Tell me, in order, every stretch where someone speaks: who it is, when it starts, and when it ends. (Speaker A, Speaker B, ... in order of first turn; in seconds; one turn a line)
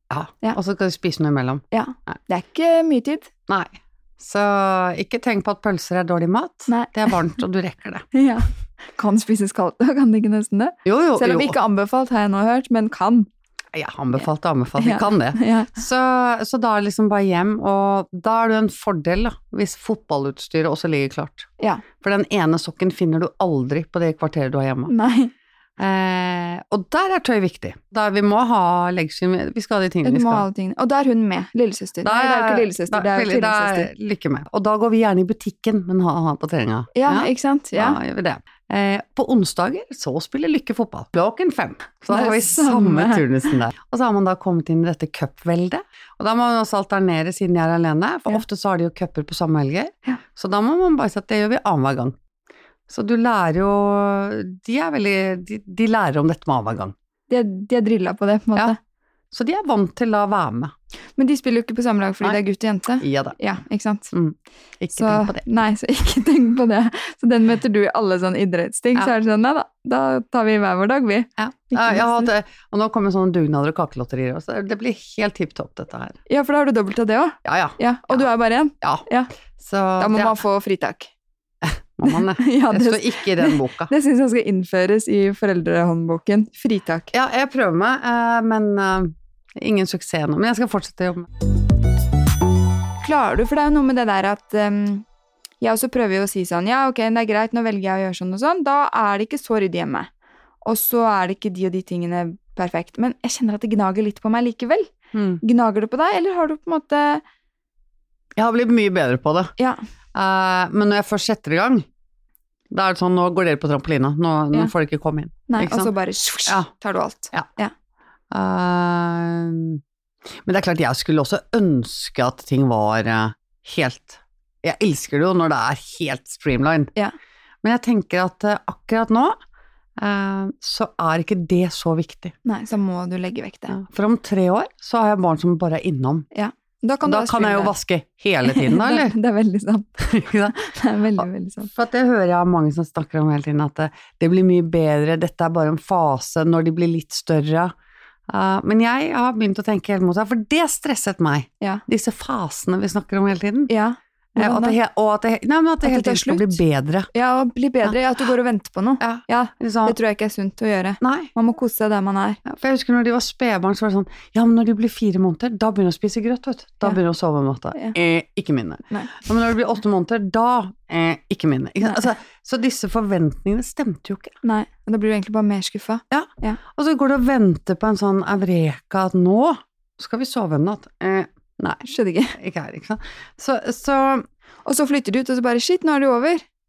Speaker A: 0.1-2.2
Speaker B: 1.7-3.3
Speaker A: 3.5-8.1
Speaker B: 8.1-13.3
Speaker A: 10.8-11.6
Speaker A: 13.7-21.5
Speaker B: 14.8-15.7
Speaker A: 22.0-24.9
Speaker B: 24.9-25.3
Speaker A: 25.8-30.4
Speaker B: 30.0-33.9
Speaker A: 32.0-52.1
Speaker B: 36.9-38.0
Speaker B: 42.1-43.2
Speaker A: 52.9-56.9
Speaker B: 57.3-58.8
Speaker A: 59.3-60.7
Speaker B: 61.2-64.1
Speaker A: 63.0-63.4
Speaker A: 64.1-65.4
Speaker B: 64.9-72.3
Speaker A: 71.4-76.2
Speaker B: 76.3-79.3
Speaker A: 77.4-78.3
Speaker A: 79.6-80.4
Speaker B: 80.0-81.1
Speaker A: 81.6-83.9
Speaker B: 82.0-87.1
Speaker A: 87.1-91.3
Speaker B: 93.0-95.0
Speaker B: 95.6-100.1
Speaker B: 100.6-107.2
Speaker A: 105.1-105.4
Speaker A: 108.4-109.5
Speaker A: 110.1-111.8
Speaker A: 112.7-115.9
Speaker B: 115.5-117.7
Speaker A: 118.3-119.8
Speaker A: 120.5-126.9
Speaker A: 127.6-129.4
Speaker A: 130.0-132.3
Speaker B: 132.4-133.7
Speaker A: 133.7-136.3
Speaker B: 136.3-137.7
Speaker A: 137.0-139.1
Speaker B: 138.4-141.7
Speaker A: 140.0-140.6
Speaker A: 141.2-147.7
Speaker A: 148.3-153.7
Speaker B: 153.7-154.8
Speaker A: 154.3-157.1
Speaker B: 155.8-156.6
Speaker B: 157.1-162.4
Speaker A: 159.0-159.9
Speaker A: 161.0-161.3
Speaker A: 162.4-174.3
Speaker B: 168.9-169.2
Speaker B: 174.4-176.6
Speaker A: 176.1-181.8
Speaker B: 181.8-182.3
Speaker A: 182.3-184.3
Speaker B: 184.6-186.4